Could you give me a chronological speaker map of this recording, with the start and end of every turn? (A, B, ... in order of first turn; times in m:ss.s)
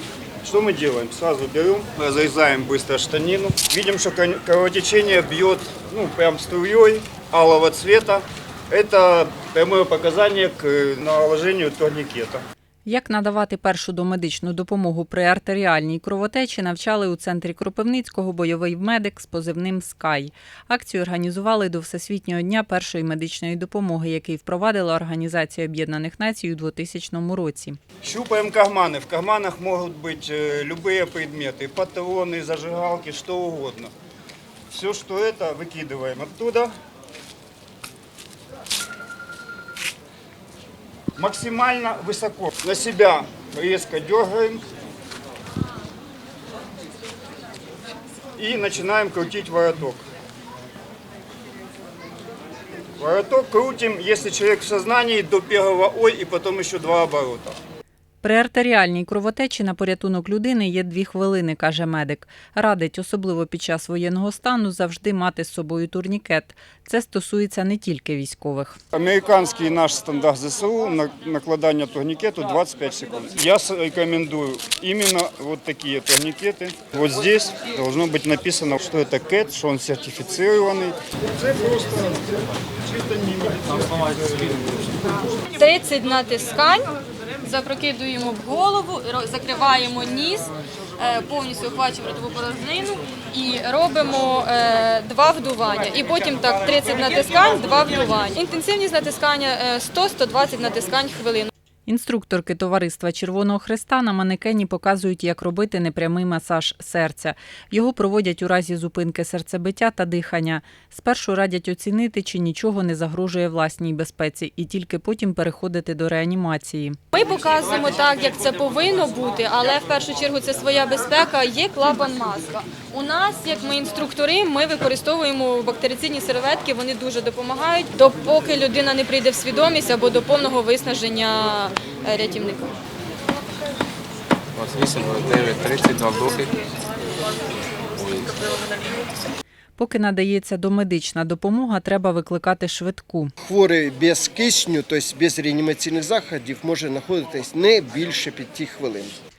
0:00.4-0:12.4 A
0:12.9-0:27.8 B
0:28.0-0:33.9 A
0:34.7-0:36.7 A
0:41.2-0:44.6 A
0:48.4-0:50.0 A
0:53.0-0:57.6 A
0:58.2-1:08.8 B
1:08.9-1:25.3 A
1:25.5-1:26.9 C
1:27.4-1:41.5 C
1:41.9-1:57.0 B
1:57.1-2:12.7 C
2:14.6-2:16.5 D
2:18.0-2:18.5 D
2:19.8-2:23.3 B
2:23.4-2:29.1 E